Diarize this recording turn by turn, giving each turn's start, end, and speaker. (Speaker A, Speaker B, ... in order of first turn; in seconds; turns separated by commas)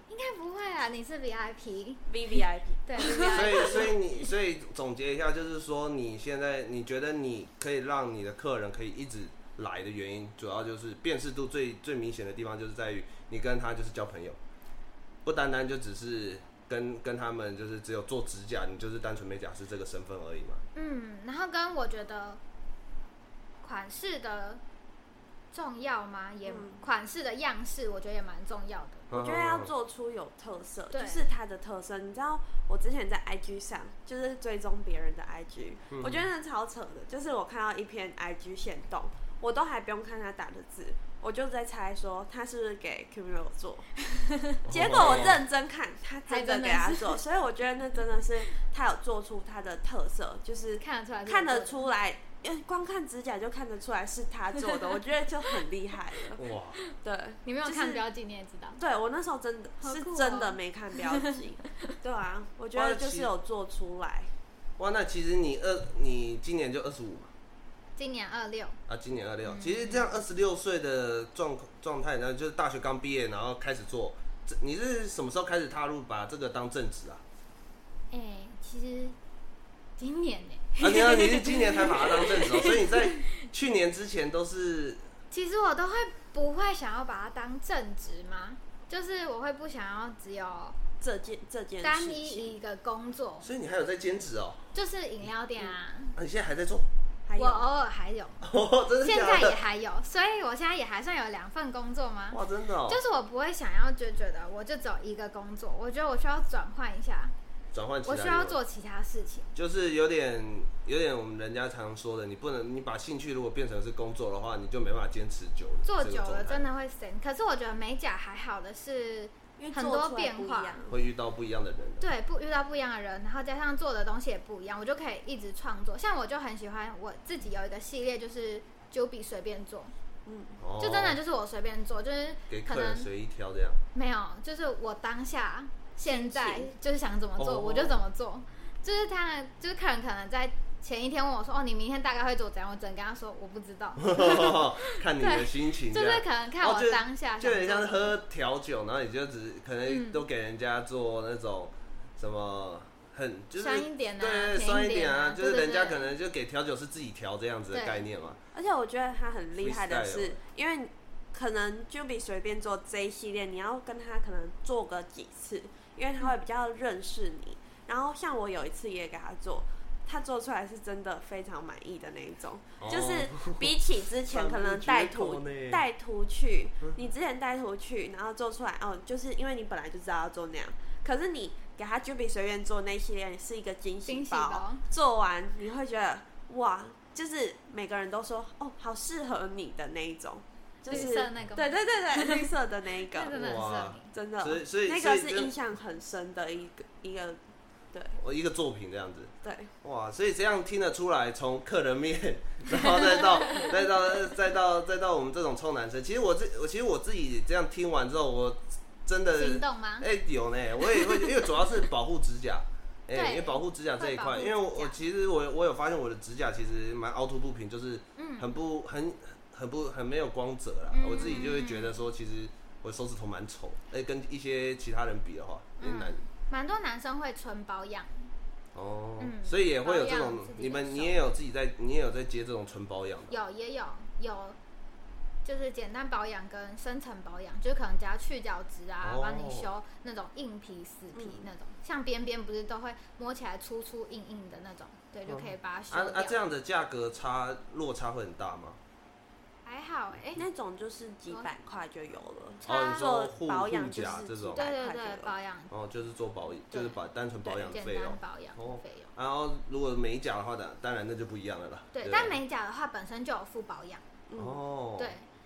Speaker A: 0.1-4.0, Speaker B: 2.1-3.9, Speaker C: 3.3-14.4, Speaker C: 15.2-20.6, Speaker A: 20.8-22.4, Speaker A: 23.6-24.6, Speaker A: 25.5-29.1, Speaker B: 26.5-26.8, Speaker C: 29.1-29.7, Speaker B: 29.1-44.0, Speaker A: 30.9-31.3, Speaker C: 35.9-36.3, Speaker A: 44.3-44.6, Speaker B: 44.6-56.4, Speaker C: 44.6-45.4, Speaker A: 46.3-47.2, Speaker A: 50.8-51.9, Speaker C: 56.4-56.8, Speaker B: 57.0-58.0, Speaker A: 57.5-58.8, Speaker B: 58.8-64.3, Speaker A: 59.8-61.3, Speaker C: 62.7-63.3, Speaker C: 64.8-67.3, Speaker A: 68.0-68.8, Speaker C: 68.9-77.2, Speaker A: 69.5-70.1, Speaker A: 78.1-79.2, Speaker A: 80.0-83.2, Speaker C: 80.8-85.1, Speaker A: 85.3-90.8, Speaker B: 91.0-92.5, Speaker A: 91.8-93.5, Speaker C: 93.4-94.7, Speaker A: 94.7-96.2, Speaker C: 96.2-96.9, Speaker B: 97.3-97.7, Speaker A: 97.4-98.5, Speaker C: 98.4-99.6, Speaker A: 99.0-107.3, Speaker C: 102.3-103.0, Speaker C: 107.7-108.6, Speaker A: 108.0-109.5, Speaker C: 109.5-116.7, Speaker A: 115.8-120.8, Speaker B: 119.6-121.0, Speaker C: 120.9-122.0, Speaker A: 122.0-129.9, Speaker B: 130.3-130.6, Speaker C: 130.6-131.2, Speaker A: 130.8-133.1, Speaker C: 132.5-133.8, Speaker A: 133.9-148.2, Speaker B: 136.1-136.7, Speaker C: 137.4-138.0, Speaker C: 144.0-158.4, Speaker A: 149.9-150.2, Speaker A: 153.6-156.1, Speaker A: 157.7-158.1, Speaker B: 158.5-193.4, Speaker C: 159.6-160.4, Speaker C: 172.8-175.8, Speaker A: 184.1-184.8, Speaker A: 190.9-192.5, Speaker A: 193.1-194.1, Speaker C: 193.3-195.5, Speaker B: 194.1-197.4, Speaker C: 198.2-226.2, Speaker B: 199.4-199.7, Speaker A: 209.3-210.1, Speaker A: 213.1-215.0, Speaker A: 218.2-218.5, Speaker A: 220.9-222.1, Speaker A: 225.8-228.3, Speaker C: 228.8-233.4, Speaker A: 229.2-231.2, Speaker A: 233.3-234.6, Speaker A: 235.4-246.4, Speaker C: 239.0-239.7, Speaker B: 241.1-241.5, Speaker C: 245.3-248.8, Speaker A: 249.7-250.4, Speaker B: 250.4-255.3, Speaker A: 252.6-253.1, Speaker C: 252.7-254.7, Speaker A: 254.6-255.7, Speaker C: 255.7-262.4, Speaker A: 256.7-259.1, Speaker A: 261.9-264.0, Speaker B: 264.3-264.6, Speaker C: 264.4-265.1, Speaker A: 265.0-265.3